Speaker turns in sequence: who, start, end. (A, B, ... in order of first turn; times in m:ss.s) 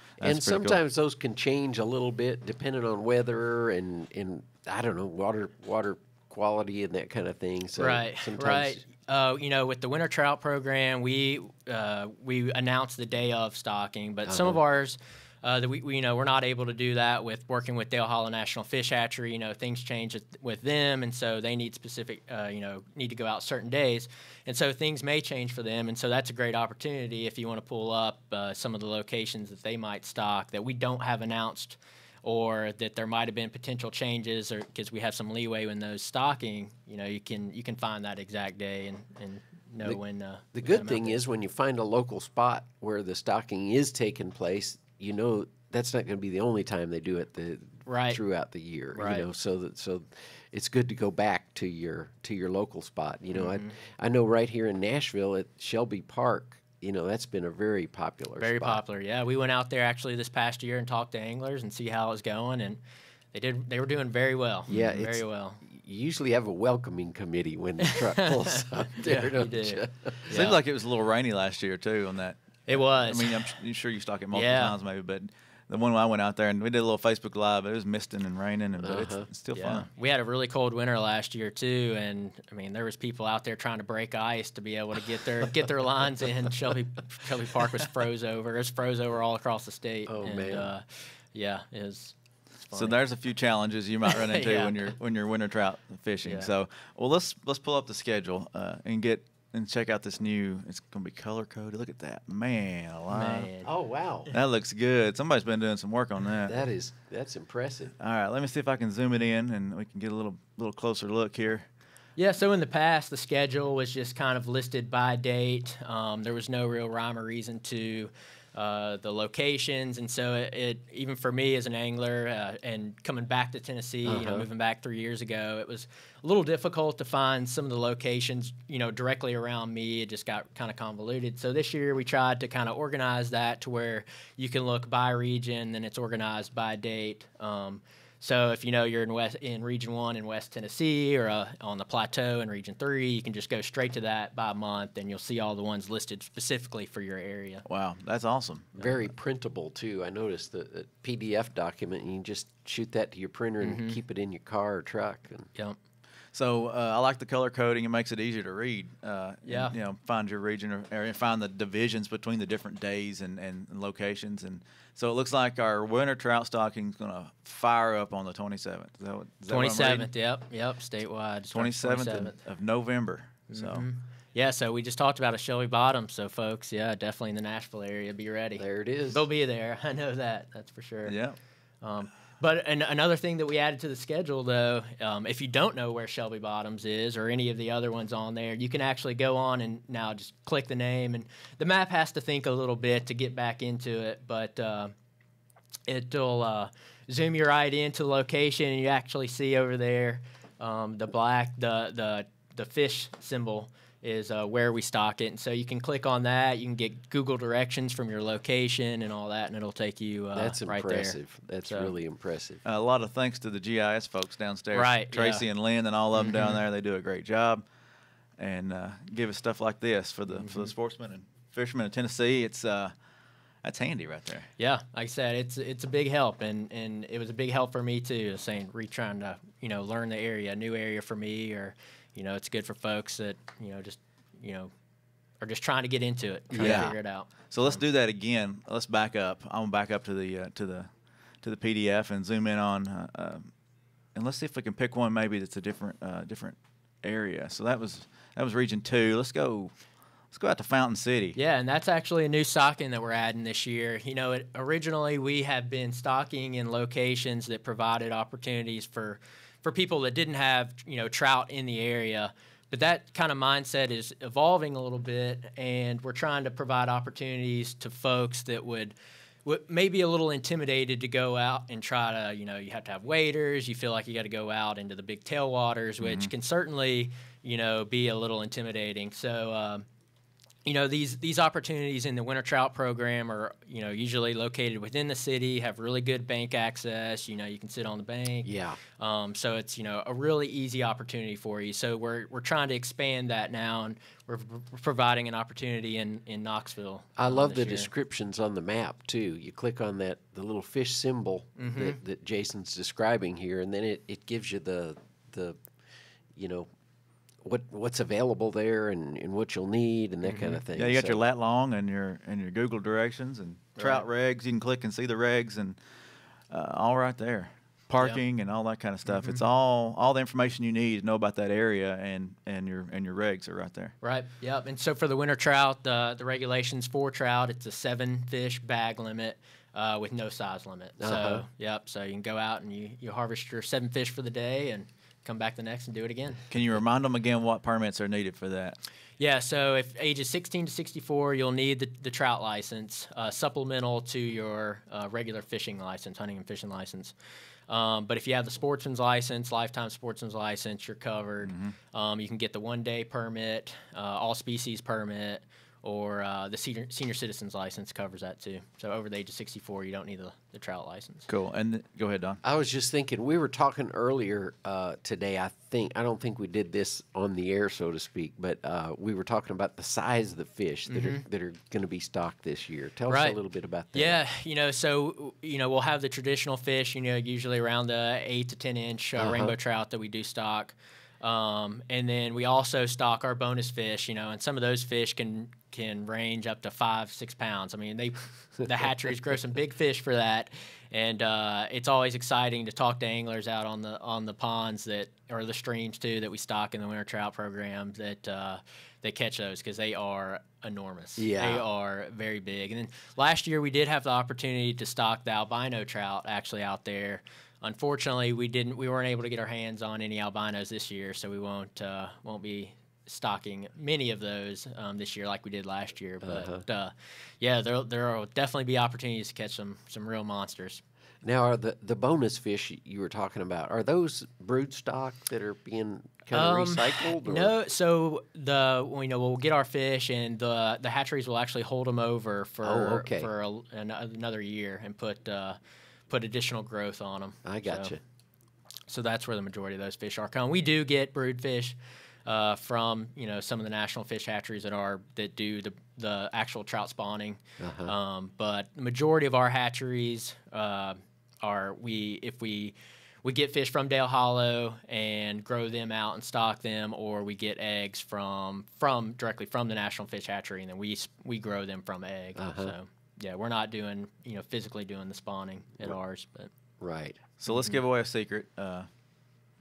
0:00.2-0:00.8 A
0:00.2-0:08.8 B
0:07.8-0:41.2 C
0:14.3-0:14.6 B
0:40.6-0:58.8 B
0:47.9-0:48.2 C
0:48.9-0:49.3 C
0:53.4-0:53.7 C
0:58.4-1:02.8 C
1:03.3-1:05.6 C
1:04.7-1:10.5 B
1:07.8-1:10.6 C
1:10.3-1:19.9 A
1:12.7-1:13.6 C
1:14.3-1:14.7 C
1:18.8-1:19.3 B
1:19.6-1:33.0 C
1:30.1-1:30.7 B
1:32.7-1:43.5 A
1:34.1-1:34.9 C
1:36.2-1:36.5 C
1:43.1-1:43.7 C
1:43.6-1:44.3 B
1:44.3-1:46.6 A
1:46.4-1:47.9 B
1:48.0-1:51.6 A
1:52.2-2:27.6 C
2:04.1-2:04.4 B
2:27.6-2:28.7 A
2:28.7-2:35.5 B
2:33.6-2:34.0 C
2:36.3-2:50.1 A
2:39.4-2:39.7 C
2:49.5-2:52.4 C
2:51.5-2:53.8 A
2:53.5-3:01.2 C
2:58.6-2:59.2 B
3:01.1-3:01.4 A
3:01.8-3:14.9 C
3:15.9-3:31.9 C
3:30.3-3:32.6 B
3:32.6-3:37.6 A
3:34.7-3:35.4 C
3:36.1-3:36.6 C
3:38.4-3:42.9 A
3:40.3-3:40.7 C
3:43.6-3:44.5 A
3:44.6-3:54.7 C
3:55.4-3:57.8 C
3:56.5-3:56.9 B
3:56.6-4:00.9 A
4:01.4-4:03.5 A
4:04.1-4:09.7 A
4:10.3-4:11.4 A
4:11.4-4:39.8 C
4:36.0-4:36.3 A
4:40.6-4:57.9 C
4:48.4-4:48.8 B
4:57.2-5:05.6 B
5:01.6-5:02.0 C
5:06.4-5:06.7 B
5:07.4-5:11.2 B
5:10.2-5:10.6 C
5:10.7-5:15.8 A
5:13.8-5:14.0 C
5:16.5-5:23.9 A
5:19.1-5:19.4 C
5:24.0-5:36.4 C
5:31.0-5:31.4 B
5:36.5-5:38.8 A
5:39.2-5:47.1 C
5:47.7-6:01.3 C
5:51.4-5:51.7 A
6:01.3-6:02.4 A
6:02.4-6:14.2 B
6:10.9-6:11.2 C
6:13.1-6:13.4 C
6:13.9-7:00.8 C
6:19.2-6:19.5 B
6:41.2-6:41.6 B
6:56.2-6:56.6 B
7:01.2-7:07.5 B
7:06.3-7:15.6 C
7:12.6-7:13.3 B
7:16.1-7:17.9 C
7:17.4-7:18.0 B
7:18.9-7:46.5 C
7:27.6-7:27.9 B
7:42.4-7:42.7 B
7:46.8-7:47.2 B
7:47.4-7:48.9 A
7:47.5-7:47.8 C